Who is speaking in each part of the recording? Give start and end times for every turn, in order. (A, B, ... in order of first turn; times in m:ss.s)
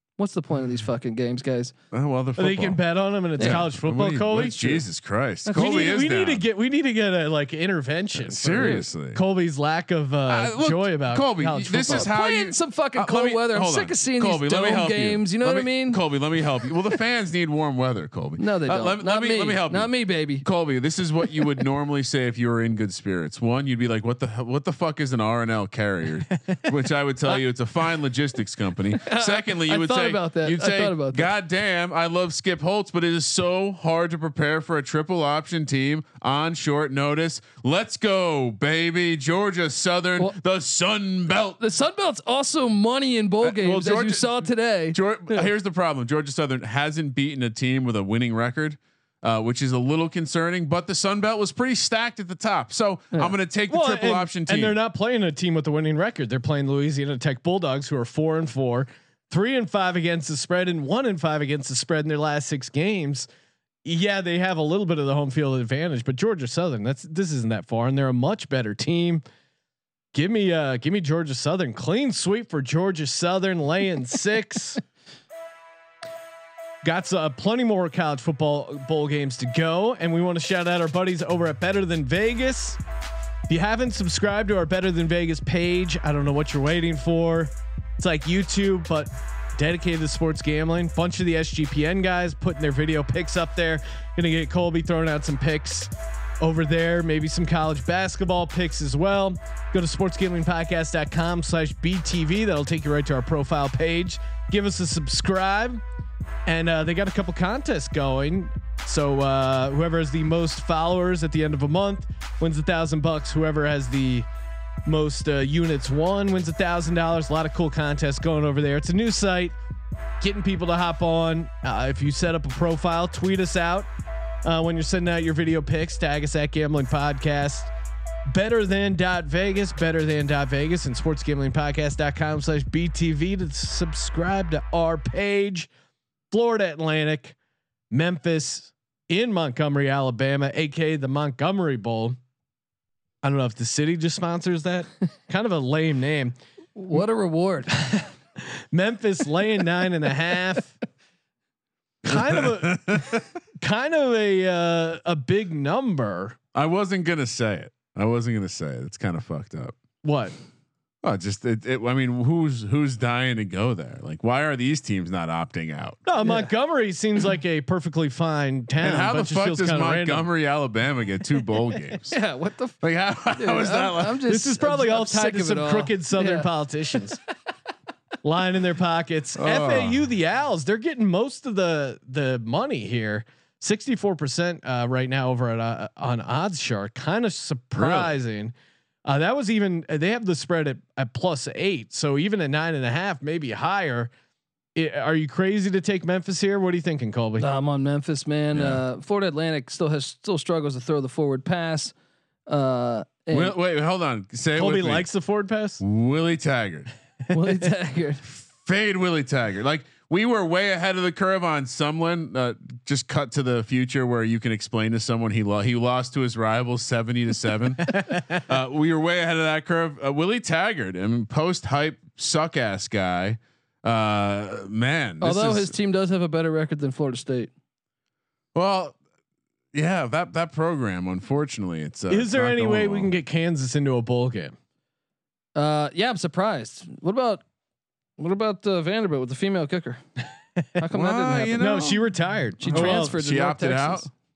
0:00.2-0:01.7 A
0:01.9-0:02.8 B
0:02.4-0:04.8 C
0:03.4-0:06.4 B
0:05.5-0:06.0 A
0:05.5-0:12.1 C
0:08.2-0:09.2 B
0:08.6-0:08.8 A
0:10.3-0:41.6 B
0:11.9-0:16.0 A
0:18.4-0:20.4 A
0:29.0-0:31.3 A
0:41.6-0:45.5 A
0:43.4-0:54.8 B
0:53.7-1:03.3 C
1:03.8-1:09.2 C
1:10.1-1:14.8 C
1:16.8-1:22.8 C
1:23.5-1:45.8 C
1:46.5-1:54.3 C
1:54.9-1:59.6 C
2:00.2-2:03.9 C
2:04.4-2:07.7 C
2:08.3-2:15.7 C
2:16.3-2:17.4 C
2:17.9-2:22.2 C
2:23.2-2:26.4 C
2:26.8-2:28.0 A
2:28.5-2:30.8 C
2:32.0-2:36.4 C
2:32.1-2:33.2 B
2:36.6-2:39.8 B
2:40.0-2:40.3 C
2:41.0-2:46.0 B
2:46.1-2:50.3 C
2:46.2-2:46.5 A
2:48.8-2:52.2 B
2:52.1-2:52.8 A
2:52.8-2:54.2 B
2:53.4-2:57.0 A
2:54.3-2:57.2 C
2:58.2-3:08.5 C
2:59.4-3:00.1 B
3:07.8-3:08.1 B
3:09.1-3:14.1 C
3:14.8-3:17.5 C
3:17.4-3:21.9 A
3:18.5-3:18.8 B
3:22.5-3:23.6 A
3:23.3-3:25.1 B
3:24.6-3:25.8 C
3:25.8-3:26.9 B
3:27.3-3:28.2 A
3:28.3-3:45.8 B
3:45.2-3:47.5 A
3:48.6-3:49.0 B
3:49.7-3:53.2 B
3:52.1-3:54.5 C
3:55.6-3:57.4 A
3:58.2-4:00.0 A
4:00.8-4:02.0 A
4:00.9-4:02.0 B
4:01.6-4:03.1 C
4:02.6-4:04.1 A
4:02.6-4:04.1 B